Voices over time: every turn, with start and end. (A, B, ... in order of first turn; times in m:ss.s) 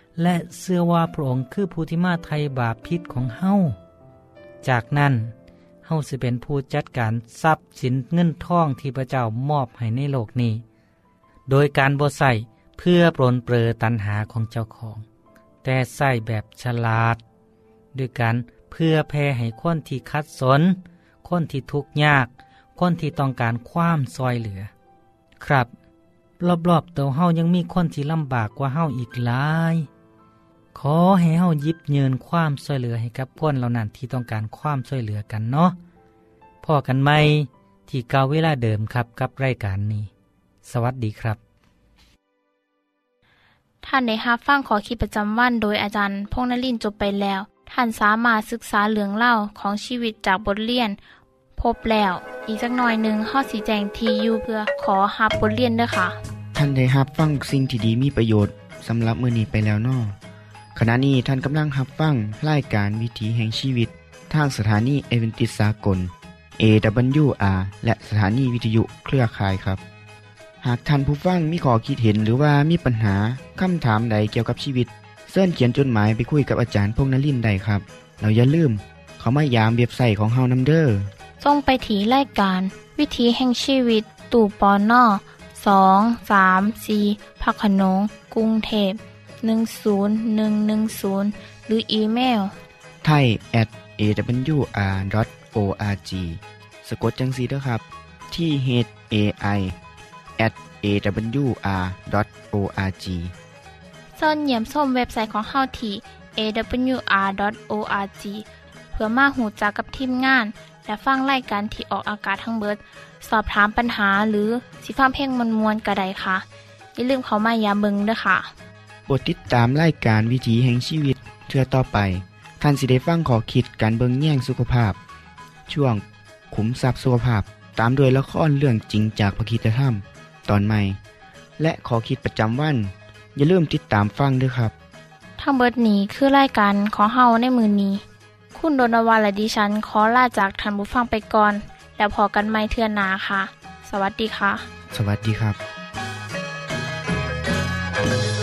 0:00.2-0:03.8 A
0:04.6-0:05.3 A
0:05.8-0:10.6 A
0:11.5-0:15.0 A
0:15.6-0:17.2 A
0:17.9-0:24.7 A
0:25.4-0:25.7 A
0:26.4-0:29.9 A
0:30.7-0:35.8 A
0:36.6-0:40.1 A
0:40.6-0:41.4 A
0:43.8-0:51.0 B
0:51.6-0:56.2 B
0:56.6-1:00.2 C
1:00.8-1:09.8 C
1:10.6-1:21.1 C
1:21.4-1:32.5 B
1:33.0-1:39.8 C
1:40.4-1:43.3 C
1:44.2-1:56.4 B
1:57.0-1:58.5 B
1:59.1-2:05.0 C
2:05.7-2:11.0 C
2:11.6-2:14.7 C
2:15.4-2:18.0 B
2:18.5-2:24.7 B
2:24.9-2:25.6 C